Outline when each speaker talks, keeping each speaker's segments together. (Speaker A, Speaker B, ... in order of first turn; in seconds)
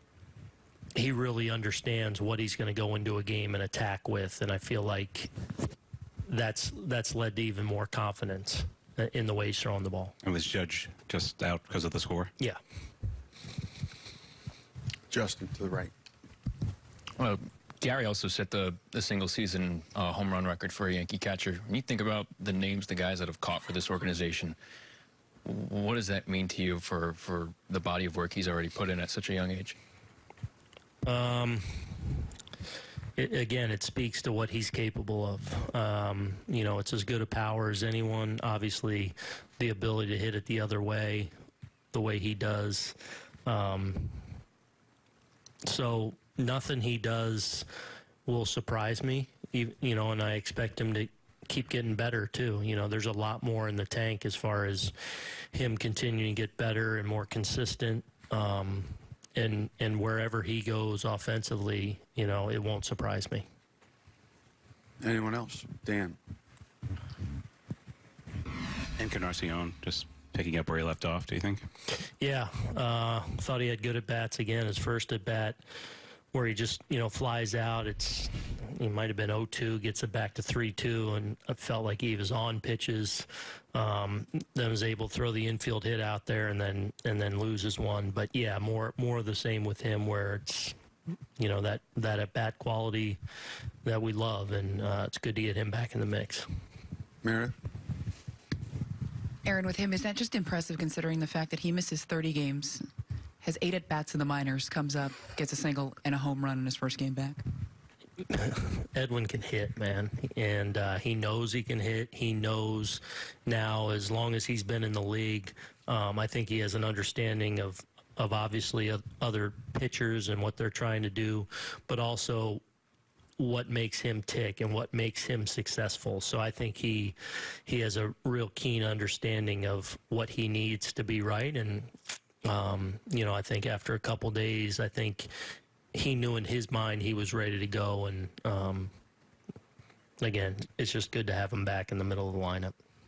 Speaker A: 0.9-5.3, 6.3-10.1, 31.0-32.2, 33.2-41.3, 41.9-43.0, 43.5-44.3, 45.6-47.7, 48.3-54.9, 55.5-63.5, 72.2-75.6, 76.3-90.8, 91.4-93.2, 93.8-96.5, 108.3-122.6, 123.4-131.9, 132.4-135.3, 135.9-138.9, 140.2-142.7
Speaker B: 10.2-12.3, 69.0-71.7
Speaker C: 15.1-15.9, 65.0-66.2, 97.2-97.5
Speaker D: 17.2-24.6, 25.4-29.8
Speaker E: 99.5-102.8, 103.4-107.4